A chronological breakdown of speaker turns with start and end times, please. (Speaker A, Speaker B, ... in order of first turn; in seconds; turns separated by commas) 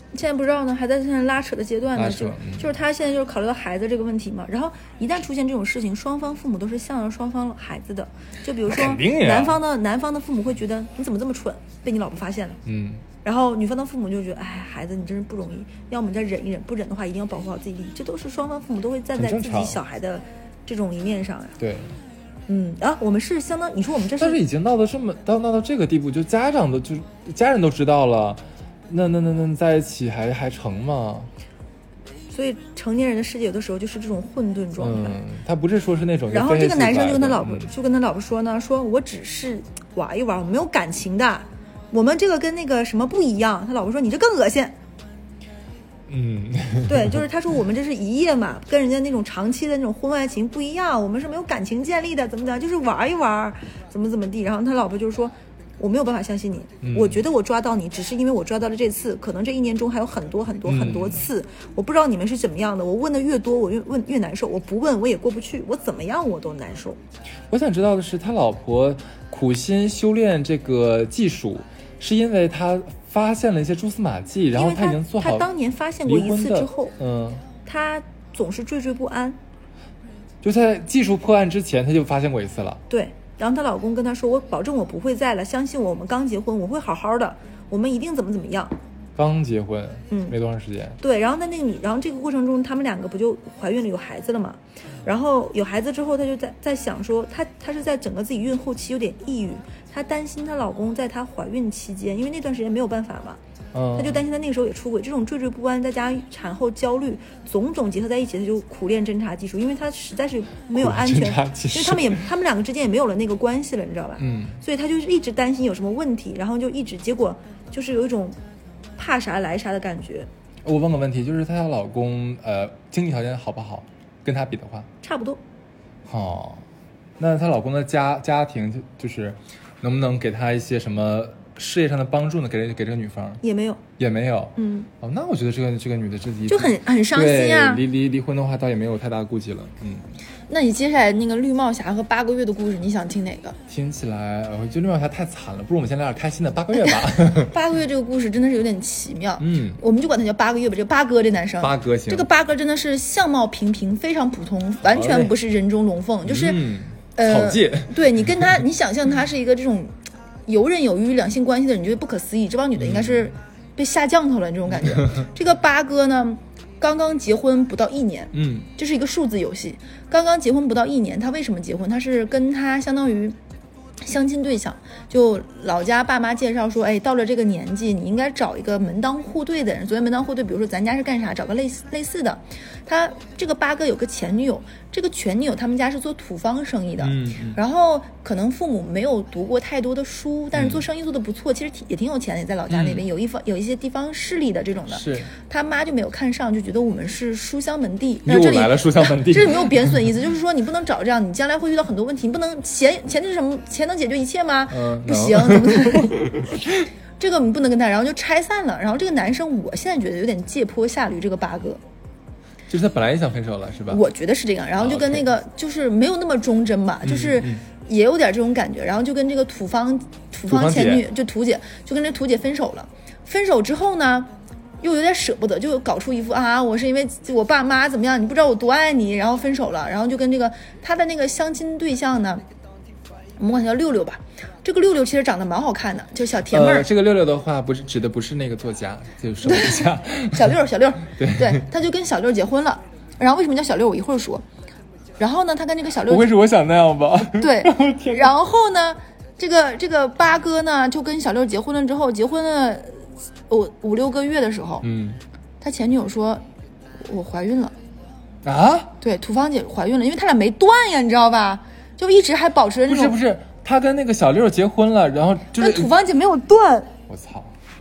Speaker A: 0.1-12.6, Speaker B: 1.9-2.7, Speaker B: 8.7-9.6, Speaker B: 12.7-13.1, Speaker A: 13.2-21.6, Speaker B: 19.2-19.8, Speaker B: 21.6-22.0, Speaker A: 22.5-24.4, Speaker B: 24.2-31.3, Speaker A: 32.3-35.2, Speaker B: 34.8-37.7, Speaker A: 36.3-44.8, Speaker B: 46.1-47.2, Speaker A: 46.9-67.0, Speaker B: 56.8-57.2, Speaker B: 60.6-61.3, Speaker B: 67.5-75.5, Speaker A: 74.5-77.0, Speaker B: 76.0-77.4, Speaker A: 77.7-79.4, Speaker B: 80.4-82.8, Speaker A: 82.9-88.8, Speaker B: 89.2-91.0, Speaker A: 90.1-90.3, Speaker A: 91.0-103.4, Speaker B: 103.7-104.2, Speaker A: 104.0-118.4, Speaker B: 110.7-112.2, Speaker B: 114.2-114.6, Speaker A: 119.0-120.3, Speaker B: 120.6-124.9, Speaker A: 125.0-125.4, Speaker B: 126.1-126.6, Speaker B: 127.2-133.4, Speaker A: 133.4-133.8, Speaker B: 134.0-140.1, Speaker A: 134.6-134.9, Speaker A: 136.5-137.8, Speaker A: 140.5-143.6, Speaker B: 143.7-147.6, Speaker A: 147.3-156.6, Speaker B: 149.4-149.8, Speaker B: 151.6-152.3, Speaker B: 154.8-155.4, Speaker B: 156.2-158.6, Speaker A: 157.2-159.9, Speaker A: 160.5-173.4, Speaker B: 162.8-163.3, Speaker B: 168.3-168.7, Speaker A: 174.0-206.3, Speaker B: 187.0-187.6, Speaker B: 190.6-190.8, Speaker B: 192.7-193.1, Speaker B: 194.9-195.3, Speaker B: 198.2-200.2, Speaker B: 204.7-206.8, Speaker A: 207.2-211.8, Speaker B: 212.7-214.0, Speaker A: 213.9-232.4, Speaker B: 214.8-215.3, Speaker B: 217.0-217.6, Speaker B: 220.5-221.1, Speaker A: 233.4-236.9, Speaker B: 236.5-240.6, Speaker A: 239.4-244.4, Speaker B: 241.2-241.6, Speaker A: 245.2-246.3, Speaker B: 246.1-248.3, Speaker A: 247.3-254.8, Speaker B: 254.8-255.2, Speaker A: 255.6-256.4, Speaker A: 257.0-257.8, Speaker B: 258.4-258.9, Speaker A: 259.0-263.2, Speaker B: 262.9-265.9, Speaker A: 265.6-266.9, Speaker B: 267.1-267.5